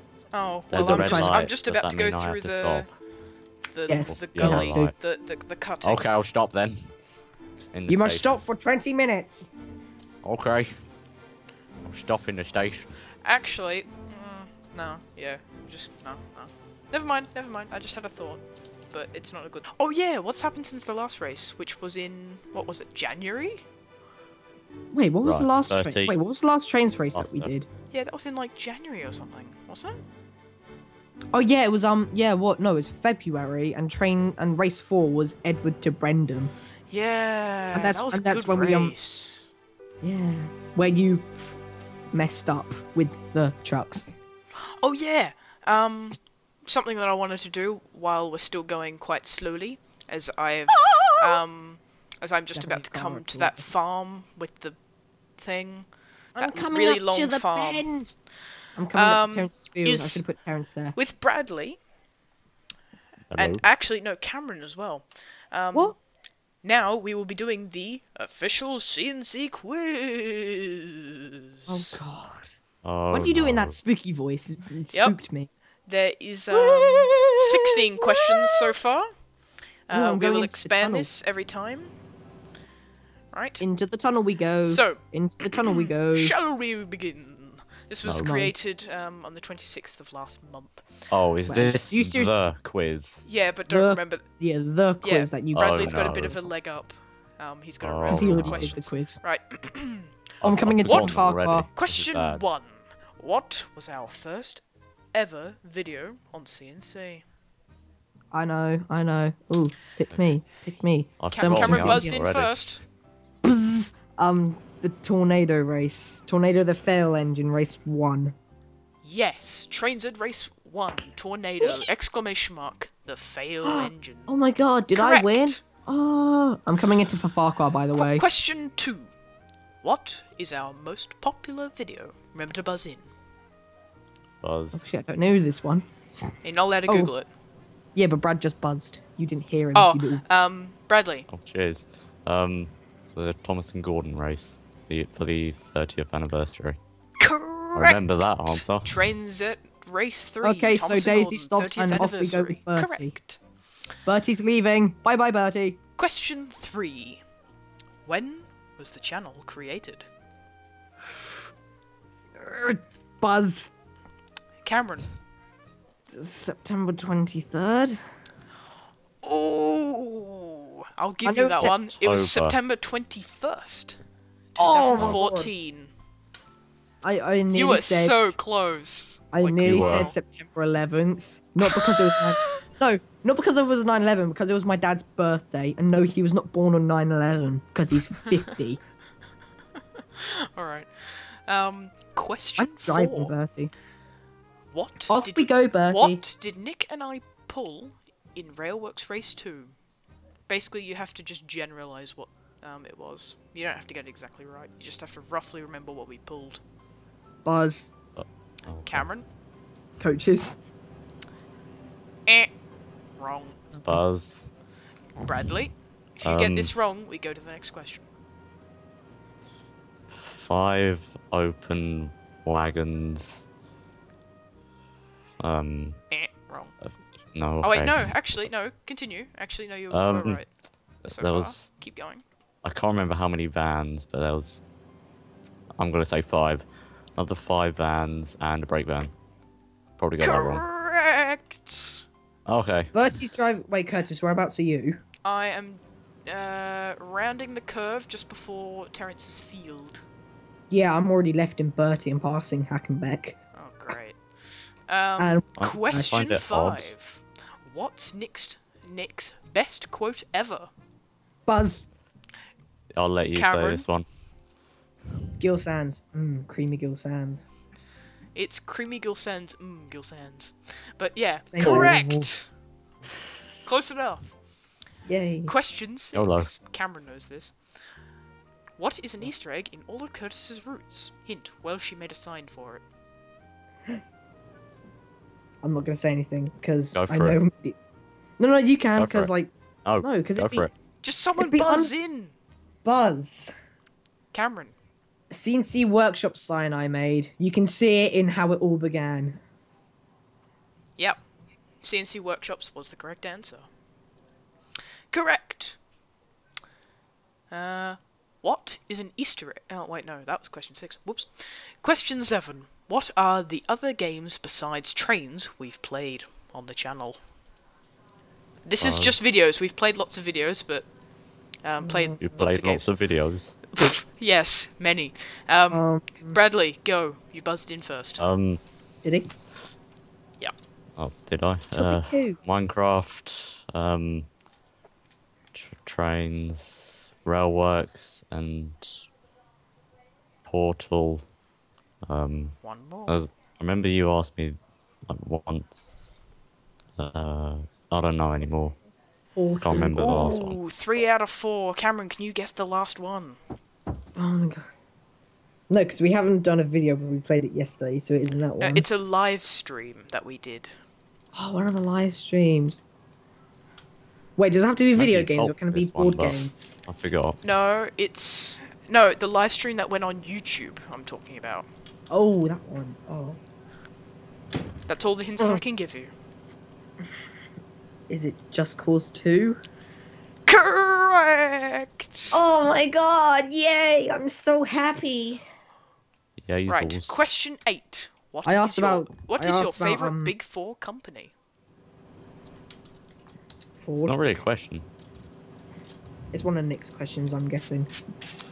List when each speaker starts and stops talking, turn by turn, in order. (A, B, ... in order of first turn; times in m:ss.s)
0:00.3-0:02.9 A
0:00.7-0:02.9 B
0:00.8-0:01.4 C
0:03.7-0:06.0 A
0:03.9-0:04.9 C
0:04.1-0:05.0 B
0:05.8-0:06.9 B
0:07.7-0:08.4 B
0:07.9-0:09.5 C
0:10.2-0:10.7 B
0:11.8-0:13.0 B
0:13.2-0:23.6 A
0:24.9-0:27.7 C
0:25.2-0:26.2 B
0:27.2-0:27.5 B
0:27.9-0:30.0 A
0:31.3-0:36.5 C
0:36.9-0:39.5 A
0:37.7-0:39.0 C
0:40.0-0:41.3 C
0:42.1-0:44.1 C
0:44.6-0:54.8 A
0:50.8-0:51.4 C
0:52.6-0:53.6 C
0:55.4-0:57.9 A
0:56.4-0:58.1 C
0:58.8-1:01.0 C
0:58.9-1:00.2 A
1:01.0-1:01.8 A
1:03.3-1:03.6 B
1:03.4-1:06.0 A
1:06.6-1:12.0 A
1:11.7-1:12.6 C
1:12.8-1:13.8 B
1:13.1-1:15.5 C
1:15.9-1:19.1 A
1:16.5-1:18.7 C
1:19.9-1:21.9 A
1:19.9-1:21.1 C
1:23.3-1:23.6 A
1:23.6-1:26.3 C
1:24.7-1:30.9 A
1:28.0-1:28.3 B
1:28.2-1:28.5 C
1:31.1-1:33.2 B
1:31.5-1:32.3 C
1:33.2-1:34.2 A
1:33.7-1:36.4 C
1:35.0-1:40.2 A
1:35.6-1:36.4 B
1:37.8-1:38.7 B
1:38.1-1:39.2 C
1:40.4-1:42.4 B
1:40.4-1:41.7 C
1:40.8-1:41.2 A
1:41.8-1:44.6 A
1:45.1-1:47.2 A
1:48.3-1:52.2 C
1:51.2-1:52.7 B
1:51.3-1:52.8 A
1:53.4-1:58.4 C
1:59.0-2:04.3 A
2:01.6-2:01.9 C
2:03.6-2:08.2 C
2:04.9-2:05.6 A
2:07.9-2:09.1 A
2:09.8-2:13.1 A
2:14.4-2:14.9 B
2:14.7-2:15.9 C
2:16.4-2:17.3 A
2:18.0-2:20.2 C
2:19.7-2:21.3 A
2:21.3-2:26.8 B
2:27.2-2:33.4 A
2:27.8-2:28.9 B
2:30.4-2:33.2 C
2:34.1-2:35.8 C
2:36.0-2:37.2 A
2:38.1-2:40.1 A
2:42.4-2:43.7 C
2:44.6-2:45.1 A
2:46.1-2:48.0 C
2:49.2-2:54.0 A
2:51.2-2:51.8 C
2:51.7-2:52.6 B
2:54.6-2:55.9 A
2:54.6-2:55.5 C
2:57.0-2:58.4 C
2:57.5-3:00.2 A
2:59.3-3:08.8 C
2:59.6-3:00.1 B
3:01.7-3:02.6 A
3:10.0-3:13.3 A
3:12.6-3:13.7 C
3:14.7-3:19.8 A
3:15.1-3:16.2 C
3:20.5-3:26.6 A
3:27.4-3:27.9 C
3:28.2-3:29.1 B
3:28.9-3:29.3 A
3:30.0-3:30.6 C
3:32.3-3:32.6 A
3:33.2-3:33.7 A
3:33.9-3:34.5 B
3:35.2-3:38.1 A
3:36.2-3:36.7 B
3:40.1-3:43.5 B
3:45.4-3:46.0 B
3:46.1-3:46.7 A
3:46.5-3:48.5 B
3:47.6-3:50.5 A
3:49.9-3:50.4 B
3:51.0-3:51.7 B
3:51.1-3:52.2 A
3:52.6-3:54.6 B
3:55.8-3:59.1 B
4:00.0-4:00.6 B
4:00.2-4:02.0 A
4:02.5-4:02.9 B
4:02.9-4:05.0 C
4:05.2-4:10.0 A
4:10.7-4:13.4 C
4:13.6-4:14.2 A
4:14.9-4:20.7 A
4:15.2-4:15.5 C
4:15.6-4:16.9 B
4:21.5-4:21.9 C
4:23.0-4:24.1 B
4:23.3-4:23.9 A
4:25.4-4:27.5 C
4:28.4-4:32.5 A
4:31.5-4:32.3 C
4:31.6-4:31.9 B
4:33.6-4:34.3 A
4:35.1-4:35.5 C
4:35.5-4:37.6 A
4:36.1-4:36.5 B
4:38.8-4:42.8 A
4:45.6-4:47.8 C
4:46.9-4:47.4 B
4:48.4-4:50.7 C
4:49.0-4:49.3 B
4:49.8-4:50.7 B
4:51.0-4:52.3 A
4:51.4-4:51.9 C
4:52.8-4:53.5 C
4:54.3-4:54.7 A
4:55.3-4:59.4 C
5:01.8-5:03.7 A
5:05.1-5:05.8 A
5:07.5-5:17.2 A
5:18.6-5:20.9 A
5:18.8-5:19.3 B
5:21.6-5:22.9 A
5:21.8-5:22.2 C
5:22.2-5:23.6 B
5:23.8-5:28.2 A
5:25.7-5:26.4 C
5:28.2-5:28.6 B
5:29.0-5:29.4 C
5:31.0-5:34.3 B
5:31.7-5:32.4 C
5:35.5-5:39.0 B
5:40.5-5:41.2 B
5:42.1-5:44.6 B
5:42.6-5:43.2 A
5:45.1-5:46.1 B
5:47.0-5:48.8 B
5:49.4-5:50.4 C
5:49.6-5:50.6 B
5:50.0-5:53.4 A
5:54.2-5:54.7 C
5:55.7-5:58.9 C
5:58.6-6:00.7 A
6:01.3-6:02.8 C
6:04.4-6:06.8 C
6:05.0-6:07.4 B
6:07.4-6:11.7 A
6:12.1-6:13.4 C
6:14.9-6:16.1 A
6:18.1-6:19.6 C
6:20.5-6:22.4 A
6:22.3-6:25.4 C
6:26.4-6:27.2 B
6:26.7-6:31.3 A
6:28.4-6:30.3 C
6:33.8-6:34.2 C
6:34.0-6:34.9 B
6:36.3-6:37.9 C